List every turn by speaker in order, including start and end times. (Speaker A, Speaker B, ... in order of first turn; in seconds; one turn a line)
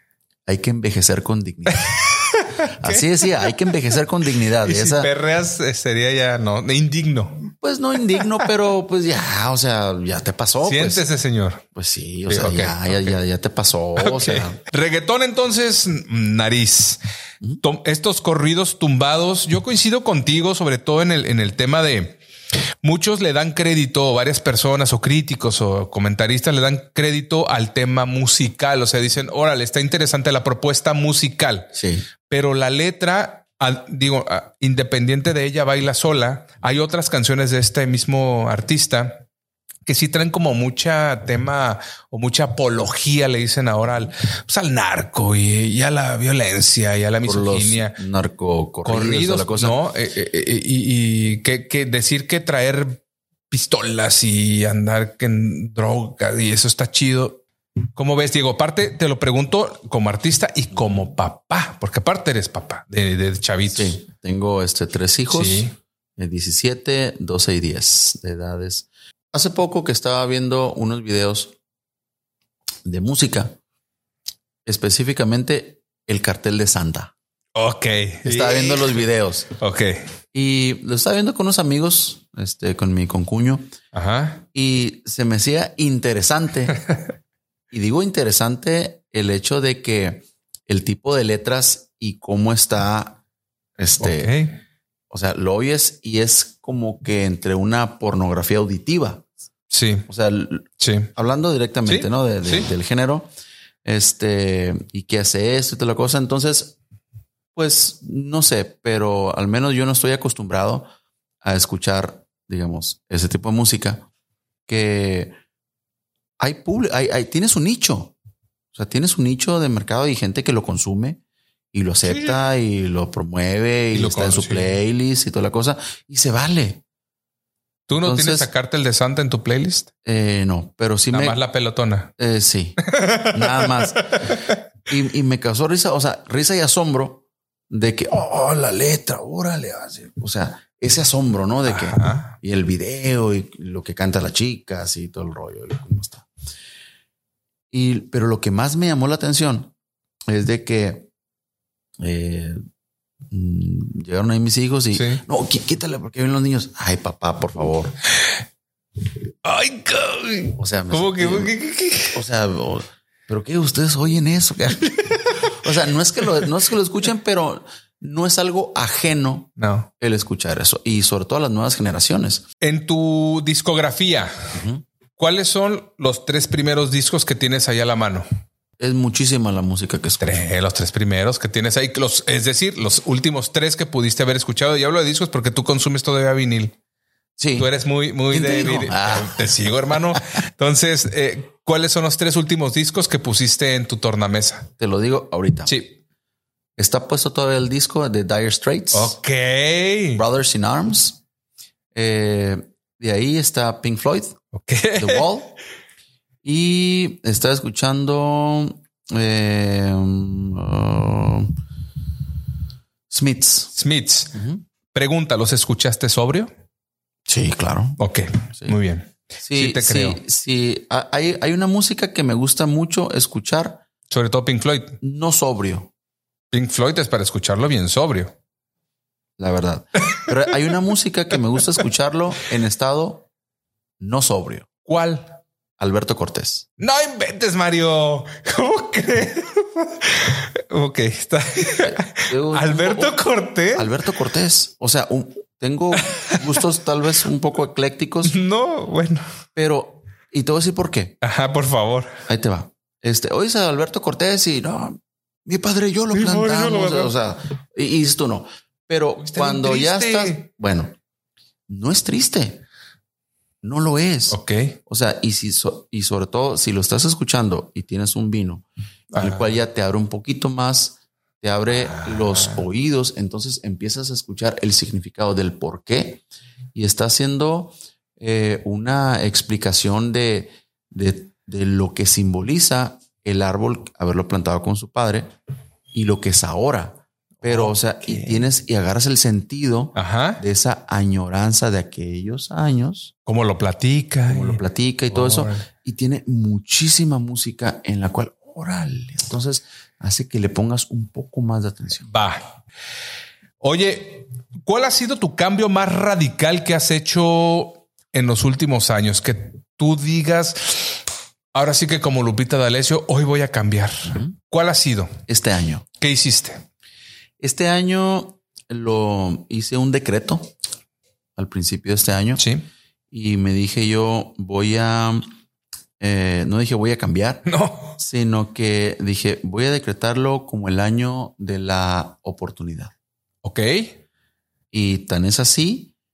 Speaker A: 0.5-2.2
Speaker B: 1.7-3.7
Speaker A: 2.7-5.1
Speaker B: 4.6-7.5
Speaker A: 7.5-11.1
Speaker B: 8.1-8.4
Speaker B: 10.6-11.7
Speaker A: 11.8-14.6
Speaker B: 12.3-13.2
Speaker B: 14.0-17.0
Speaker B: 17.6-22.2
Speaker B: 22.8-31.7
Speaker A: 31.7-32.1
Speaker B: 32.3-39.3
Speaker B: 39.9-48.0
Speaker A: 47.2-49.8
Speaker B: 48.9-57.4
Speaker B: 58.0-64.0
Speaker A: 63.7-71.5
Speaker B: 65.3-65.8
Speaker A: 72.8-73.6
Speaker A: 74.7-77.1
Speaker B: 77.5-79.1
Speaker A: 78.2-79.5
Speaker B: 79.6-80.0
Speaker A: 80.3-83.6
Speaker B: 83.9-84.4
Speaker A: 84.5-86.8
Speaker A: 87.7-93.2
Speaker A: 93.8-94.3
Speaker B: 94.0-94.6
Speaker A: 95.1-99.3
Speaker B: 99.7-100.1
Speaker A: 100.1-103.3
Speaker B: 100.8-101.1
Speaker B: 101.9-102.7
Speaker A: 103.8-106.8
Speaker A: 107.5-110.9
Speaker A: 111.4-114.1
Speaker A: 114.7-115.3
Speaker A: 116.4-118.2
Speaker A: 118.7-121.2
Speaker A: 121.7-126.8
Speaker B: 122.0-122.4
Speaker B: 123.9-124.7
Speaker B: 127.9-129.9
Speaker A: 128.0-128.5
Speaker A: 130.1-131.4
Speaker B: 131.1-132.1
Speaker A: 132.2-132.8
Speaker B: 132.8-134.6
Speaker A: 133.3-134.3
Speaker A: 134.9-146.3
Speaker B: 141.7-142.3
Speaker A: 147.7-149.7
Speaker A: 150.3-151.1
Speaker A: 152.0-152.6
Speaker A: 153.3-157.9
Speaker B: 154.9-155.2
Speaker B: 159.4-162.2
Speaker A: 160.6-161.5
Speaker A: 162.1-172.4
Speaker B: 164.9-165.6
Speaker B: 169.6-169.9
Speaker B: 172.6-174.6
Speaker A: 174.5-174.8
Speaker B: 175.2-178.3
Speaker A: 178.8-180.5
Speaker B: 180.2-186.8
Speaker A: 187.4-187.7
Speaker B: 187.6-194.7
Speaker A: 188.3-190.2
Speaker A: 194.8-195.8
Speaker B: 195.7-196.0
Speaker A: 196.8-199.2
Speaker B: 198.9-200.2
Speaker A: 200.2-201.2
Speaker A: 201.9-204.4
Speaker B: 204.5-205.3
Speaker A: 204.9-205.6
Speaker A: 206.4-211.5
Speaker A: 213.1-213.7
Speaker B: 213.8-214.4
Speaker A: 214.3-214.6
Speaker B: 214.9-216.5
Speaker A: 217.3-218.0
Speaker B: 218.0-220.2
Speaker A: 219.4-223.8
Speaker B: 224.1-225.0
Speaker A: 225.0-225.9
Speaker B: 226.5-228.3
Speaker A: 229.4-233.3
Speaker A: 234.0-234.7
Speaker B: 234.8-235.4
Speaker A: 235.8-236.7
Speaker B: 236.8-243.9
Speaker A: 241.8-243.2
Speaker A: 243.8-248.3
Speaker B: 246.0-246.6
Speaker B: 248.2-249.3
Speaker A: 249.6-251.2
Speaker B: 251.2-252.2
Speaker A: 252.3-260.9
Speaker B: 256.1-257.1
Speaker B: 259.2-260.4
Speaker A: 261.7-262.6
Speaker A: 263.6-268.6
Speaker B: 264.3-264.8
Speaker B: 269.1-269.6
Speaker A: 269.2-276.2
Speaker B: 271.7-272.6
Speaker A: 276.7-285.3
Speaker A: 285.9-293.1
Speaker B: 287.4-288.4
Speaker B: 289.9-290.4
Speaker B: 293.3-295.7
Speaker A: 294.3-302.1
Speaker B: 302.1-302.6
Speaker B: 303.6-311.0
Speaker B: 311.5-315.2
Speaker A: 315.3-315.9
Speaker B: 316.0-316.6
Speaker A: 317.4-320.5
Speaker A: 321.4-322.4
Speaker B: 322.4-322.7
Speaker A: 323.1-325.3
Speaker A: 326.0-327.4
Speaker B: 327.5-328.0
Speaker A: 328.0-332.9
Speaker B: 333.4-334.0
Speaker A: 334.7-335.9